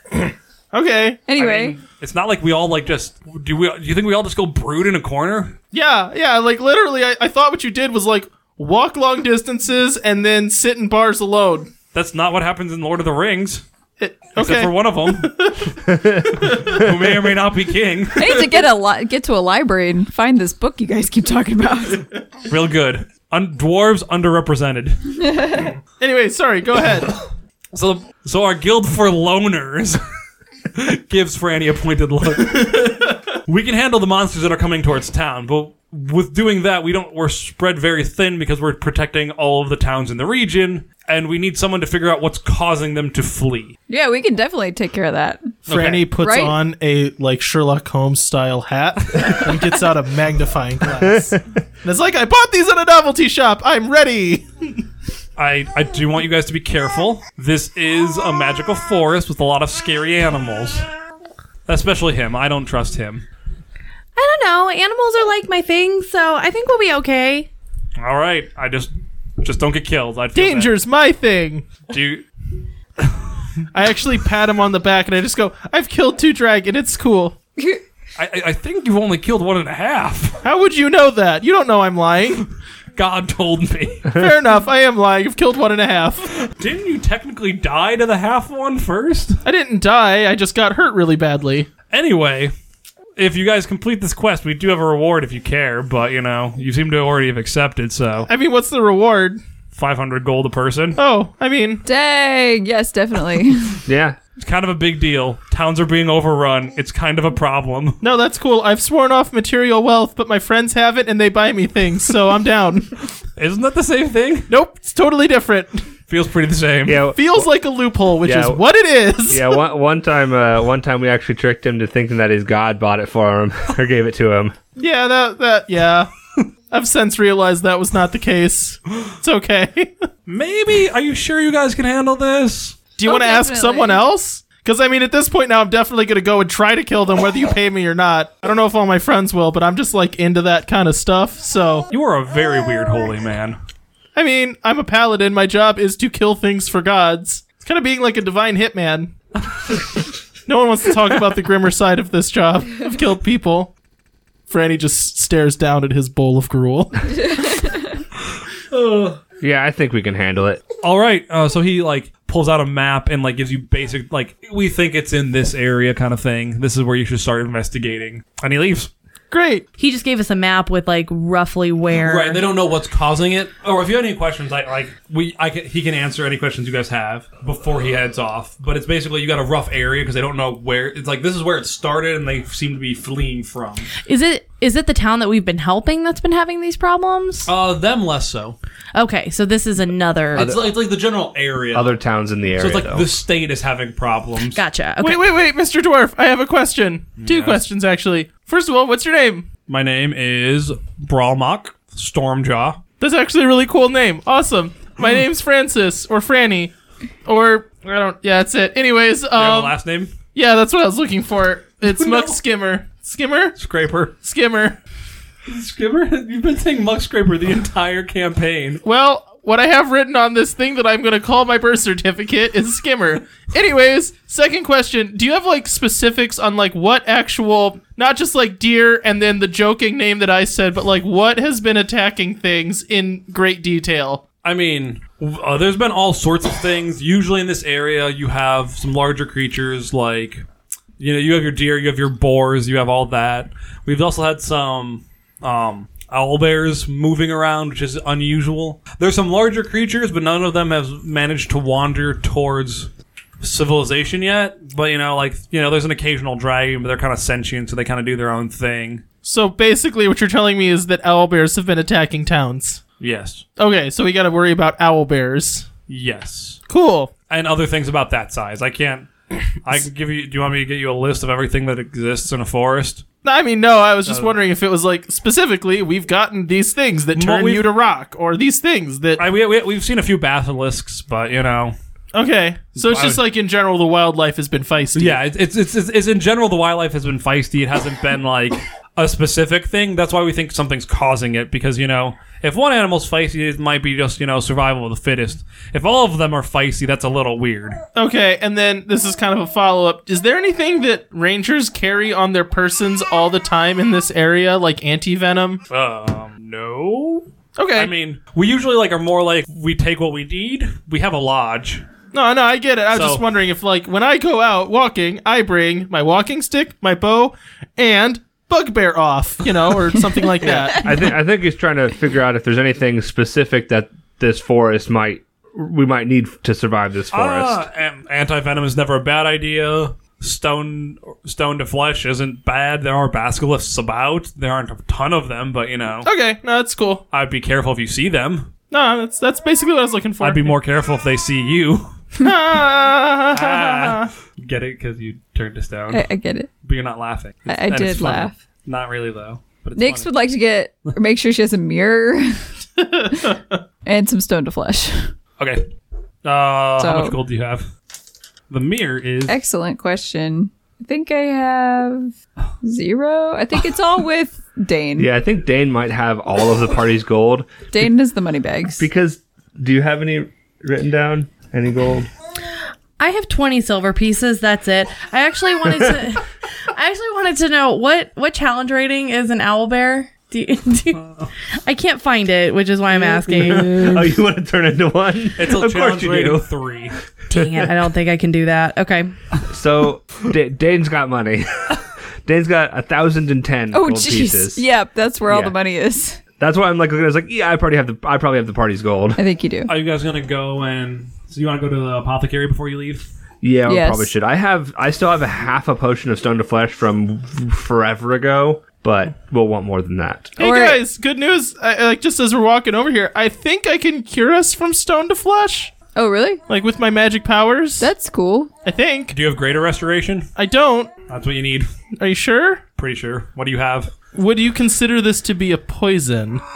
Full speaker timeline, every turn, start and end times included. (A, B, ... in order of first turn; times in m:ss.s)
0:00.1-0:01.2 A
0:01.3-0:01.8 B
0:01.4-0:05.6 C
0:05.7-0:11.7 A
0:11.9-0:13.6 C
0:14.0-0:15.7 A
0:14.4-0:15.3 C
0:15.9-0:16.3 D
0:16.4-0:18.5 C
0:16.4-0:16.8 A
0:18.2-0:22.1 B
0:22.5-0:25.2 C
0:25.3-0:25.7 B
0:26.0-0:27.2 A
0:27.7-0:30.0 C
0:30.7-0:43.8 C
0:43.9-0:45.6 B
0:45.7-0:46.1 C
0:45.7-0:54.7 A
0:46.2-0:46.6 B
0:51.1-0:51.3 D
0:55.4-1:00.8 C
1:01.7-1:03.2 C
1:04.2-1:07.5 E
1:08.0-1:10.7 C
1:10.4-1:11.8 A
1:11.9-1:12.2 C
1:13.7-1:17.4 A
1:18.2-1:20.4 C
1:20.4-1:22.5 A
1:23.0-1:24.1 C
1:24.1-1:26.3 A
1:26.4-1:29.4 C
1:29.4-1:31.7 A
1:31.9-1:32.5 C
1:33.2-1:38.3 C
1:38.3-1:39.4 A
1:39.7-1:41.0 C
1:41.0-1:41.8 A
1:41.8-1:43.8 B
1:43.9-1:44.2 D
1:44.4-1:48.0 C
1:48.0-1:53.0 A
1:53.4-1:54.5 C
1:54.5-1:55.9 A
1:56.1-1:57.1 C
1:56.8-1:57.5 D
1:57.2-1:59.5 A
1:58.2-1:58.6 D
1:59.3-2:04.6 D
2:04.8-2:06.1 A
2:06.7-2:10.1 A
2:10.3-2:12.8 C
2:13.0-2:21.9 A
2:13.0-2:14.0 B
2:21.9-2:23.6 C
2:24.2-2:29.1 A
2:30.5-2:33.7 A
2:34.5-2:37.6 A
2:37.1-2:38.0 B
2:38.7-2:39.2 C
2:39.4-2:40.6 D
2:40.8-2:48.9 C
2:49.3-2:49.6 A
2:49.8-2:52.4 E
2:52.0-3:03.9 C
3:04.1-3:07.5 E
3:07.5-3:08.6 C
3:09.0-3:10.5 E
3:10.4-3:12.0 C
3:10.4-3:10.7 D
3:11.7-3:13.1 D
3:12.5-3:14.6 C
3:14.5-3:15.2 E
3:15.0-3:19.5 A
3:17.2-3:17.6 C
3:19.7-3:22.8 C
3:23.0-3:26.7 A
3:27.2-3:29.8 A
3:29.3-3:30.1 C
3:30.3-3:33.6 A
3:31.9-3:32.4 C
3:33.6-3:34.1 C
3:34.2-3:34.8 A
3:35.5-3:38.8 C
3:38.8-3:54.2 A
3:54.4-4:00.4 C
4:01.0-4:12.9 C
4:13.4-4:19.0 C
4:19.2-4:22.8 A
4:23.0-4:23.4 C
4:23.6-4:25.7 A
4:25.9-4:26.6 C
4:26.7-4:27.1 A
4:27.3-4:29.1 C
4:29.6-4:33.0 C
4:33.2-4:39.2 A
4:34.0-4:34.4 C
4:37.2-4:37.8 C
4:39.2-4:41.8 C
4:42.1-4:45.2 A
4:42.8-4:43.2 C
4:44.9-4:57.8 C
4:58.0-5:05.6 A
5:05.7-5:11.8 C
5:07.6-5:07.9 A
5:12.1-5:21.1 A
5:12.9-5:13.2 C
5:20.4-5:27.6 D
5:27.1-5:36.1 C
5:36.0-5:37.0 A
5:37.1-5:38.5 C
5:38.7-5:40.6 A
5:40.2-5:41.9 C
5:42.2-5:44.1 A
5:43.3-5:46.1 C
5:45.9-5:46.5 B
5:46.6-5:50.1 C
5:47.5-5:48.3 B
5:49.8-5:52.4 B
5:52.8-5:53.6 A
5:53.8-5:55.2 B
5:55.4-5:55.7 C
5:56.2-5:57.7 C
5:56.8-5:57.2 B
5:58.5-5:59.4 C
5:59.3-6:05.1 B
6:05.0-6:07.6 D
6:07.7-6:08.9 B
6:08.8-6:12.1 D
6:13.0-6:21.0 E
6:21.0-6:21.3 C
6:21.6-6:23.9 E
6:23.0-6:24.1 C
6:23.4-6:26.5 D
6:25.4-6:27.0 C
6:27.3-6:29.1 E
6:29.5-6:34.6 D
6:33.7-6:36.2 B
6:35.3-6:35.6 D
6:36.4-6:39.2 D
6:39.2-6:39.7 B
6:39.7-6:43.1 C
6:43.4-6:50.4 D
6:43.7-6:44.1 B
6:50.4-6:50.8 B
6:50.4-6:55.8 A
6:55.9-6:56.4 B
6:56.5-6:57.9 A
6:57.8-6:58.5 B
6:58.6-6:59.1 A
6:59.1-7:00.3 C
7:00.4-7:00.9 A
7:01.1-7:01.7 C
7:02.0-7:02.6 A
7:02.8-7:03.9 C
7:04.1-7:06.4 A